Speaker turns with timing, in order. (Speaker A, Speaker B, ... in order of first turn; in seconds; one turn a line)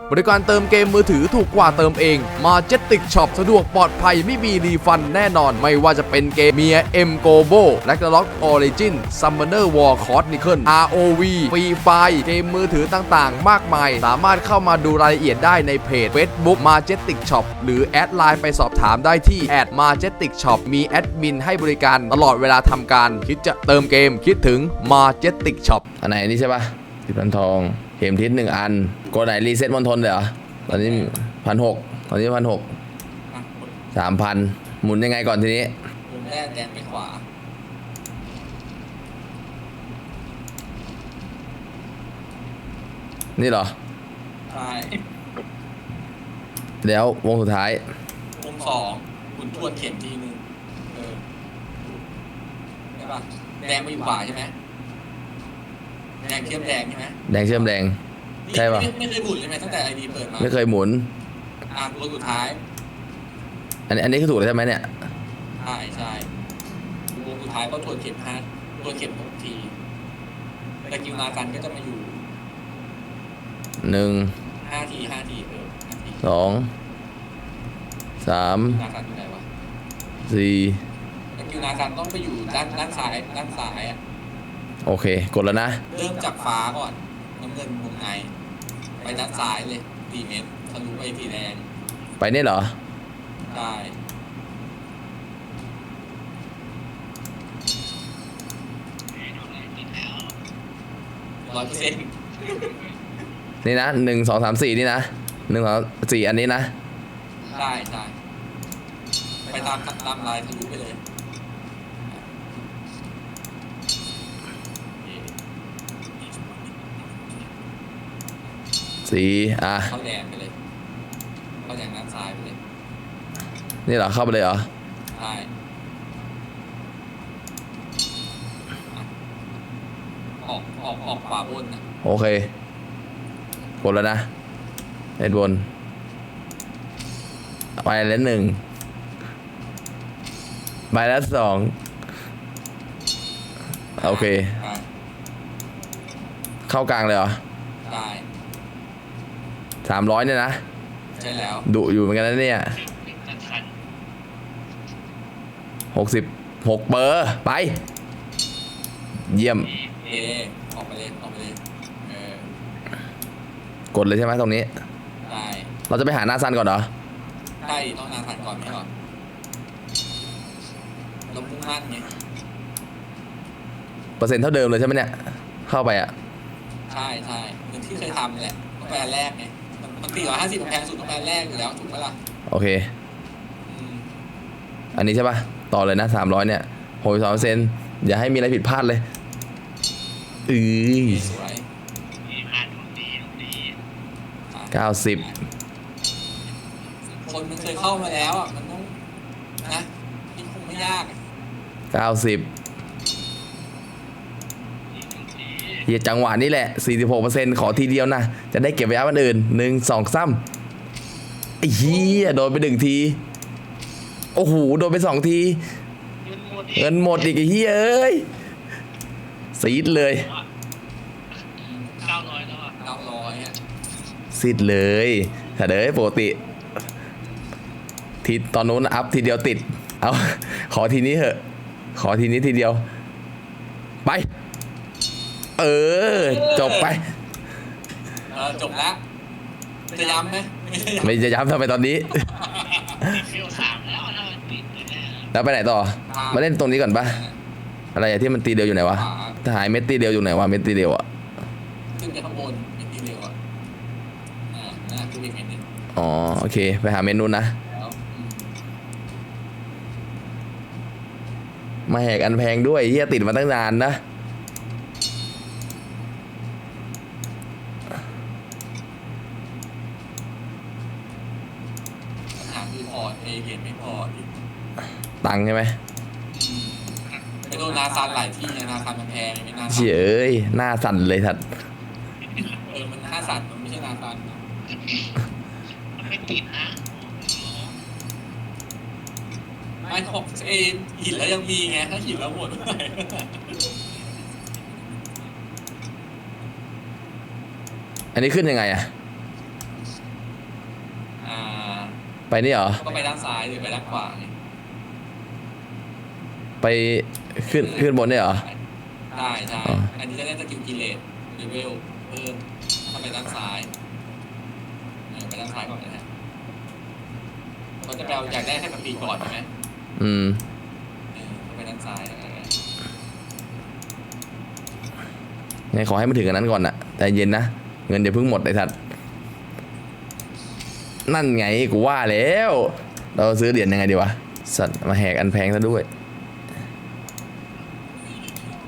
Speaker A: 0.1-25.8
Speaker B: 26.0-32.7
Speaker C: 30.7-31.1
Speaker C: 33.3-33.8
Speaker B: 34.0-35.7
Speaker C: 36.1-37.2
Speaker B: 43.4-43.7
Speaker C: 44.5-45.0
Speaker B: 46.8-47.8
Speaker C: 48.4-51.2
Speaker C: 52.9-54.5
Speaker C: 56.2-57.3
Speaker B: 57.3-58.0
Speaker C: 58.5-60.6
Speaker B: 58.5-58.9
Speaker B: 60.4-61.1
Speaker C: 61.7-62.6
Speaker B: 63.9-64.9
Speaker C: 65.6-66.3
Speaker C: 67.1-69.8
Speaker C: 70.8-72.3
Speaker B: 73.8-74.3
Speaker C: 74.6-76.2
Speaker B: 76.2-76.7
Speaker B: 78.2-78.8
Speaker C: 78.7-79.5
Speaker B: 80.3-80.8
Speaker C: 81.3-84.0
Speaker B: 84.8-85.8
Speaker C: 85.9-88.3
Speaker C: 89.0-91.7
Speaker B: 92.2-92.7
Speaker C: 93.5-94.0
Speaker C: 101.4-102.8
Speaker B: 103.6-106.7
Speaker C: 107.5-108.1
Speaker C: 109.5-111.0
Speaker C: 115.0-115.3
Speaker C: 116.2-117.5
Speaker B: 119.0-119.9
Speaker C: 119.9-120.5
Speaker C: 121.6-122.6
Speaker B: 123.9-124.7
Speaker C: 125.1-125.5
Speaker C: 130.4-131.8
Speaker B: 132.0-132.5
Speaker B: 133.8-134.3
Speaker B: 135.2-135.7
Speaker B: 137.8-138.6
Speaker B: 140.9-141.8
Speaker B: 144.0-144.5
Speaker C: 144.0-144.8
Speaker B: 146.7-147.4
Speaker C: 147.8-148.3
Speaker B: 149.8-150.6
Speaker C: 151.2-151.7
Speaker B: 151.7-152.8
Speaker C: 153.1-153.6
Speaker B: 155.9-157.8
Speaker B: 159.3-159.7
Speaker C: 159.8-162.6
Speaker B: 163.9-164.7
Speaker C: 165.2-165.7
Speaker B: 165.9-166.9
Speaker C: 167.6-168.9
Speaker C: 171.3-172.1
Speaker B: 174.2-176.1
Speaker C: 176.9-182.2
Speaker B: 182.5-182.9
Speaker C: 183.7-184.1
Speaker B: 184.9-189.0
Speaker B: 190.5-191.3
Speaker C: 191.0-191.7
Speaker C: 194.5-195.4
Speaker B: 194.7-195.3
Speaker C: 197.1-199.0
Speaker C: 199.6-201.2
Speaker B: 201.9-202.5
Speaker B: 205.8-210.4
Speaker B: 211.6-213.2
Speaker B: 214.3-215.6
Speaker B: 216.6-218.3
Speaker B: 219.6-220.3
Speaker C: 221.7-223.6
Speaker B: 224.3-226.4
Speaker B: 228.2-231.4
Speaker B: 231.9-232.8
Speaker B: 235.6-237.1
Speaker C: 236.1-236.9
Speaker C: 238.2-239.0
Speaker C: 239.9-241.2
Speaker B: 241.0-242.3
Speaker C: 242.6-244.5
Speaker B: 245.3-247.2
Speaker C: 246.1-246.5
Speaker C: 247.0-247.3
Speaker B: 247.9-251.1
Speaker C: 248.9-249.4
Speaker C: 251.9-253.4
Speaker C: 254.5-255.6
Speaker B: 255.9-257.6
Speaker C: 257.7-258.5
Speaker B: 261.9-264.0
Speaker C: 272.4-274.3
Speaker B: 275.2-275.8
Speaker C: 276.3-279.9
Speaker B: 279.7-281.4
Speaker C: 282.4-284.4
Speaker C: 289.8-293.7
Speaker B: 298.1-298.9
Speaker C: 301.2-302.0
Speaker B: 302.3-302.8
Speaker C: 302.8-304.3
Speaker B: 306.6-308.4
Speaker C: 307.4-308.6
Speaker C: 309.1-313.7
Speaker C: 315.1-316.1
Speaker C: 317.8-319.5
Speaker B: 320.0-320.4
Speaker C: 321.1-322.6
Speaker B: 325.7-328.8
Speaker B: 331.1-335.9